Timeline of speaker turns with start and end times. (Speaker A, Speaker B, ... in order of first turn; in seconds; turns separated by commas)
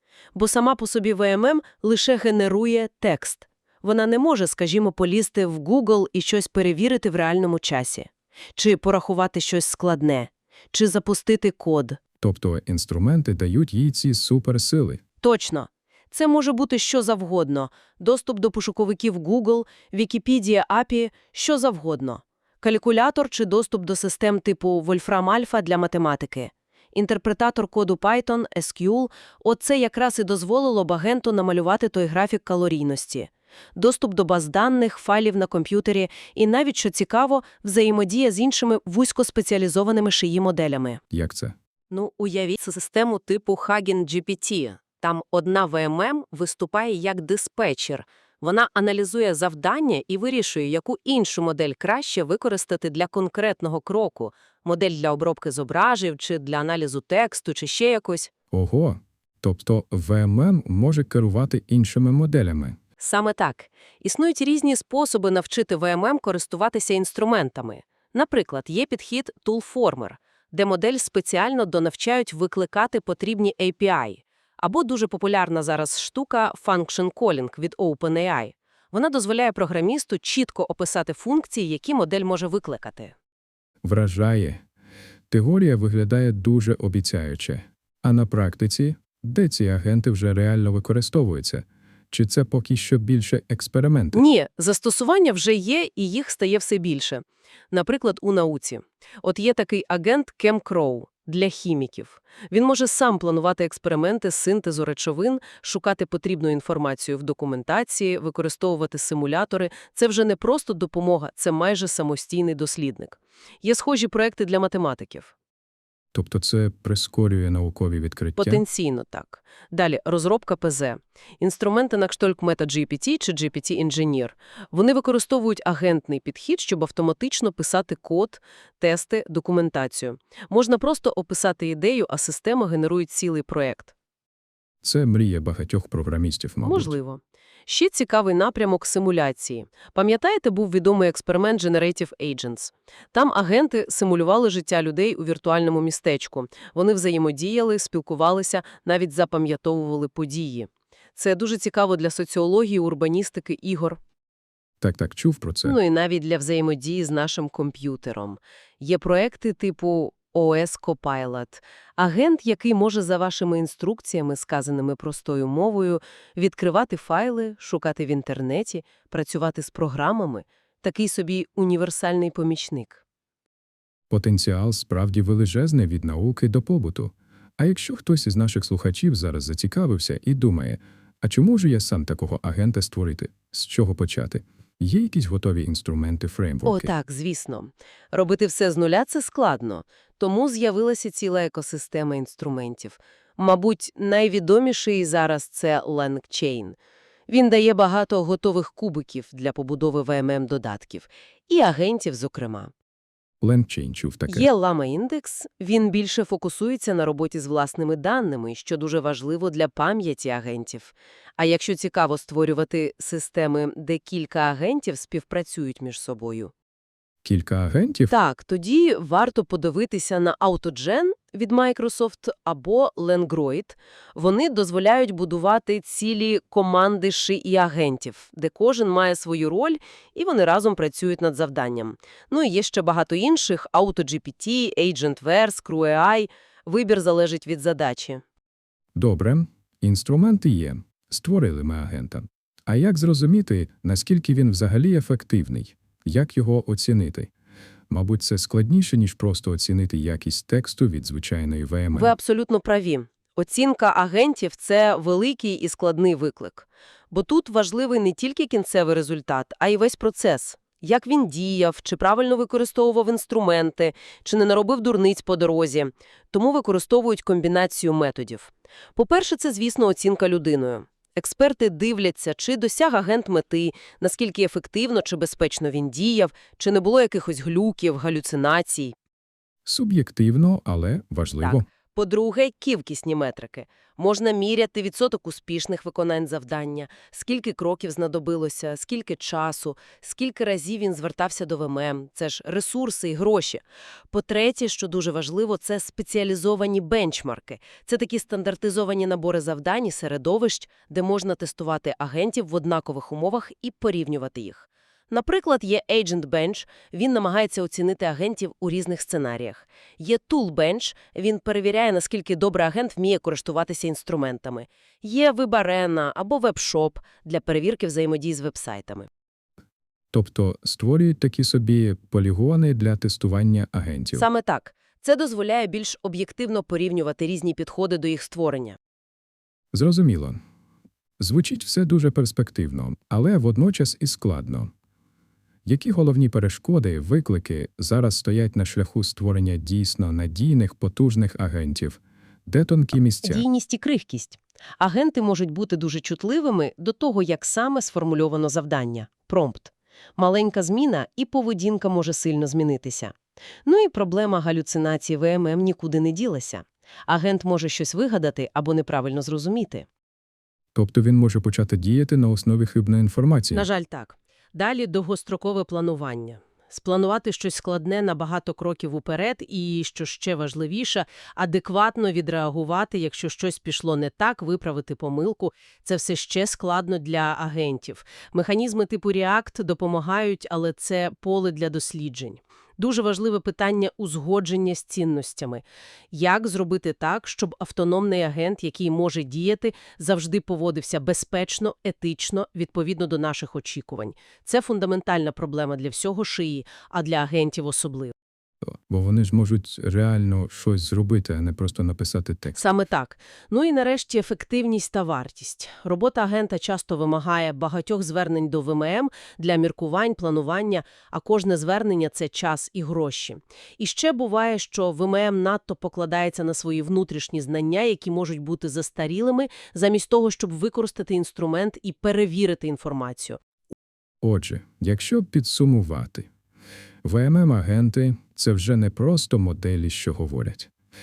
Speaker A: 0.3-12.0, Speaker B: 12.2-15.0, Speaker A: 15.2-41.0, Speaker B: 41.1-41.5, Speaker A: 41.9-58.3, Speaker B: 58.5-62.8, Speaker A: 63.0-83.1, Speaker B: 83.8-84.6, Speaker B: 85.3-94.2, Speaker A: 94.1-115.3, Speaker B: 116.1-118.6, Speaker A: 118.4-133.9, Speaker B: 134.8-136.9, Speaker A: 136.6-154.0, Speaker B: 154.8-155.8, Speaker A: 155.6-173.0, Speaker B: 174.1-186.9, Speaker A: 186.6-196.8, Speaker A: 197.3-202.7, Speaker B: 203.4-204.5, Speaker A: 204.3-216.5, Speaker B: 217.2-218.1, Speaker A: 218.1-238.2, Speaker B: 238.9-247.3, Speaker B: 247.9-252.1, Speaker A: 251.9-278.9, Speaker B: 279.6-281.6, Speaker A: 281.4-319.1, Speaker B: 320.1-324.3, Speaker A: 324.1-328.8, Speaker B: 329.7-330.4, Speaker B: 331.2-334.7, Speaker B: 335.6-343.4, Speaker A: 343.2-353.1, Speaker A: 353.6-359.9, Speaker B: 360.7-363.7, Speaker A: 363.5-398.1, Speaker B: 398.9-402.6, Speaker A: 402.5-423.4, Speaker B: 424.2-426.3, Speaker B: 427.0-430.7